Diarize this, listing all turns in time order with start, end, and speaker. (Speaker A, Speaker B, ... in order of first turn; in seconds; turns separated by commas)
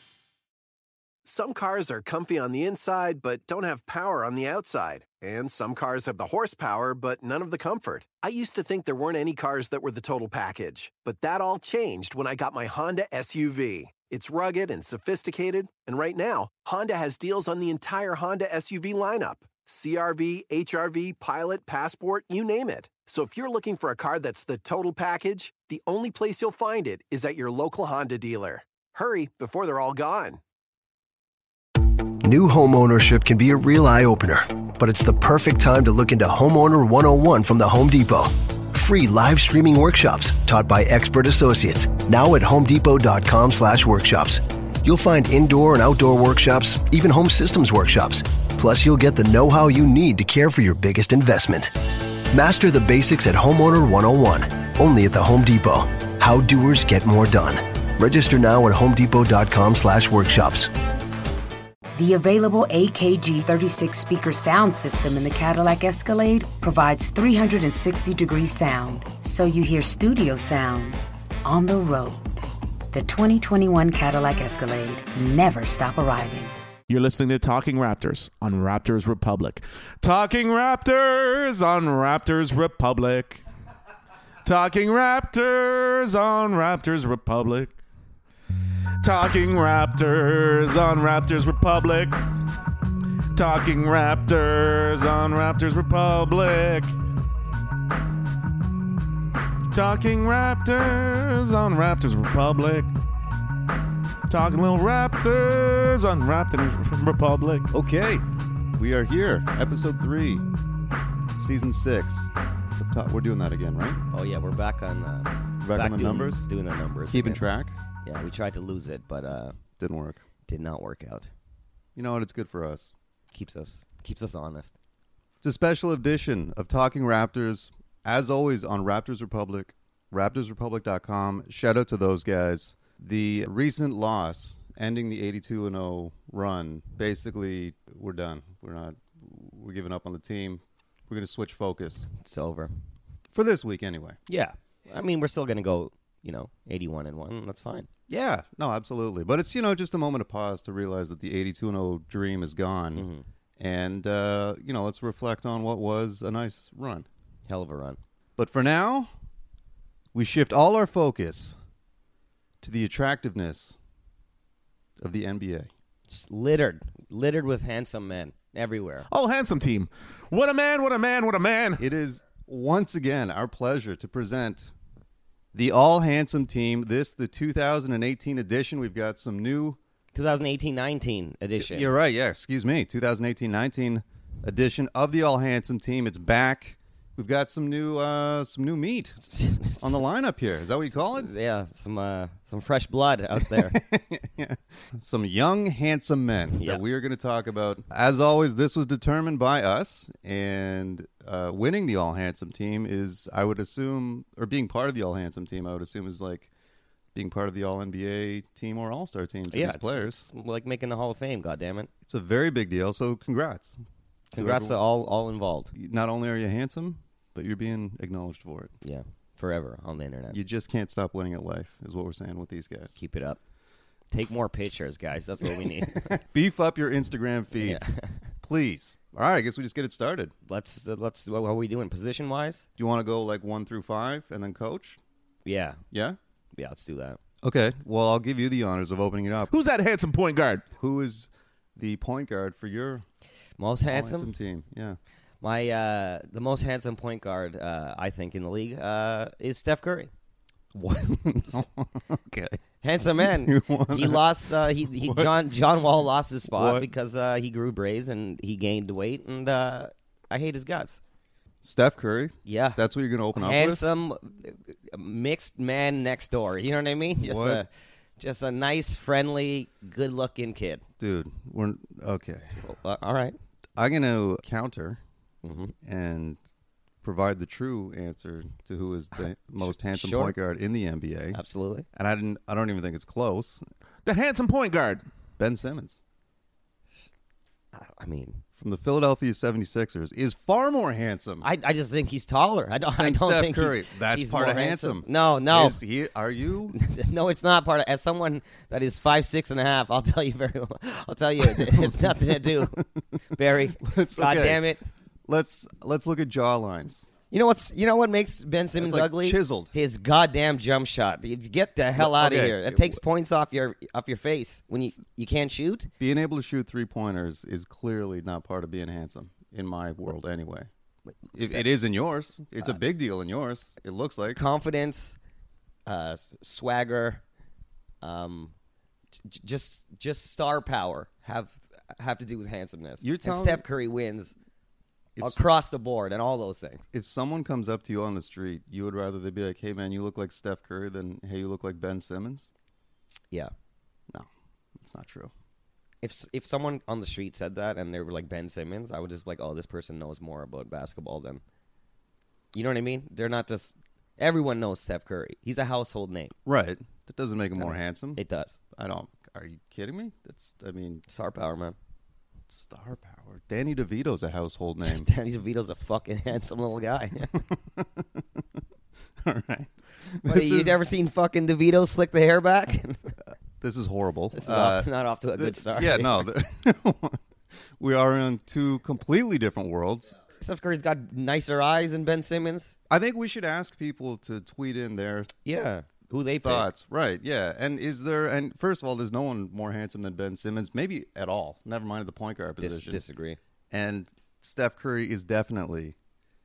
Speaker A: 1.2-30.4, Speaker B: 32.2-60.7, Speaker C: 61.9-72.2, Speaker C: 72.9-76.5, Speaker D: 76.9-83.4, Speaker D: 84.4-87.8, Speaker D: 89.0-92.2, Speaker D: 93.3-96.9, Speaker D: 99.7-102.9, Speaker D: 104.3-107.7, Speaker E: 107.7-108.2, Speaker E: 108.8-110.5, Speaker E: 111.4-114.0, Speaker F: 114.1-117.4, Speaker E: 115.6-116.5, Speaker E: 117.1-117.8, Speaker F: 118.0-119.6, Speaker E: 119.8-120.2, Speaker F: 120.5-121.3, Speaker E: 122.0-122.9, Speaker F: 123.3-124.7, Speaker E: 125.4-142.1, Speaker F: 142.1-142.7, Speaker E: 143.3-144.2, Speaker F: 144.3-147.9, Speaker E: 148.1-153.1, Speaker F: 152.9-153.2, Speaker E: 153.6-157.1, Speaker F: 157.5-158.0, Speaker E: 158.4-159.1, Speaker E: 160.1-161.6, Speaker E: 162.6-163.8, Speaker E: 165.0-165.7, Speaker F: 166.1-169.1, Speaker D: 169.1-171.8, Speaker E: 171.8-174.7, Speaker E: 175.5-179.8, Speaker F: 180.1-181.9, Speaker E: 181.6-189.2, Speaker F: 189.3-190.0, Speaker E: 189.8-191.3, Speaker F: 190.9-193.8, Speaker E: 193.4-206.5, Speaker F: 196.6-196.8, Speaker E: 207.1-210.3, Speaker F: 209.5-211.9, Speaker E: 212.0-213.8, Speaker F: 214.3-215.7, Speaker E: 214.3-214.8, Speaker E: 215.7-218.7, Speaker F: 218.8-220.4, Speaker E: 220.3-223.0, Speaker F: 222.9-223.4, Speaker F: 224.1-226.1, Speaker E: 225.6-230.3, Speaker F: 227.6-228.2, Speaker F: 230.4-232.7, Speaker E: 232.8-235.0, Speaker F: 235.4-235.8, Speaker E: 235.9-236.2, Speaker F: 236.6-237.2, Speaker E: 237.4-239.5, Speaker D: 239.5-240.6, Speaker E: 240.7-243.0, Speaker F: 243.6-244.3, Speaker E: 243.9-245.0, Speaker F: 245.4-250.1, Speaker E: 250.7-252.6, Speaker F: 252.8-261.0, Speaker E: 253.2-255.4, Speaker E: 256.5-256.9, Speaker E: 261.6-263.8, Speaker F: 262.4-262.8, Speaker F: 263.4-270.8, Speaker E: 267.2-267.6, Speaker E: 271.0-272.6, Speaker F: 272.6-273.4, Speaker E: 273.8-275.0, Speaker F: 275.4-275.7, Speaker E: 275.8-276.4, Speaker E: 277.0-281.4, Speaker F: 279.2-280.4, Speaker F: 281.3-281.9, Speaker E: 281.9-283.6, Speaker D: 284.0-285.0, Speaker E: 285.4-286.0, Speaker F: 287.7-288.4, Speaker E: 288.6-291.5, Speaker F: 291.4-295.8, Speaker E: 293.0-296.8, Speaker F: 296.7-304.8, Speaker E: 301.4-302.9, Speaker E: 303.8-304.7, Speaker E: 305.3-307.1, Speaker F: 307.3-315.9, Speaker E: 308.7-309.7, Speaker E: 311.9-313.0, Speaker E: 316.0-320.7, Speaker F: 321.2-321.7, Speaker E: 321.3-324.4, Speaker F: 324.3-325.2, Speaker F: 325.9-327.2, Speaker F: 328.0-328.5, Speaker F: 329.2-334.3, Speaker E: 333.0-333.6, Speaker E: 335.1-335.4, Speaker F: 335.2-336.9, Speaker E: 336.9-342.5, Speaker E: 344.1-345.3, Speaker F: 346.0-351.4, Speaker F: 352.5-356.3, Speaker E: 356.4-361.0, Speaker F: 357.6-358.6, Speaker F: 361.1-361.8, Speaker E: 362.5-365.1, Speaker F: 364.8-367.3, Speaker E: 367.3-368.4, Speaker E: 369.2-370.8, Speaker F: 370.2-373.1, Speaker E: 373.6-377.2, Speaker F: 374.4-376.3, Speaker E: 377.8-380.2, Speaker F: 380.3-382.7, Speaker E: 382.9-385.3, Speaker F: 385.4-386.7, Speaker E: 386.4-393.0, Speaker F: 392.6-393.4, Speaker E: 393.7-395.9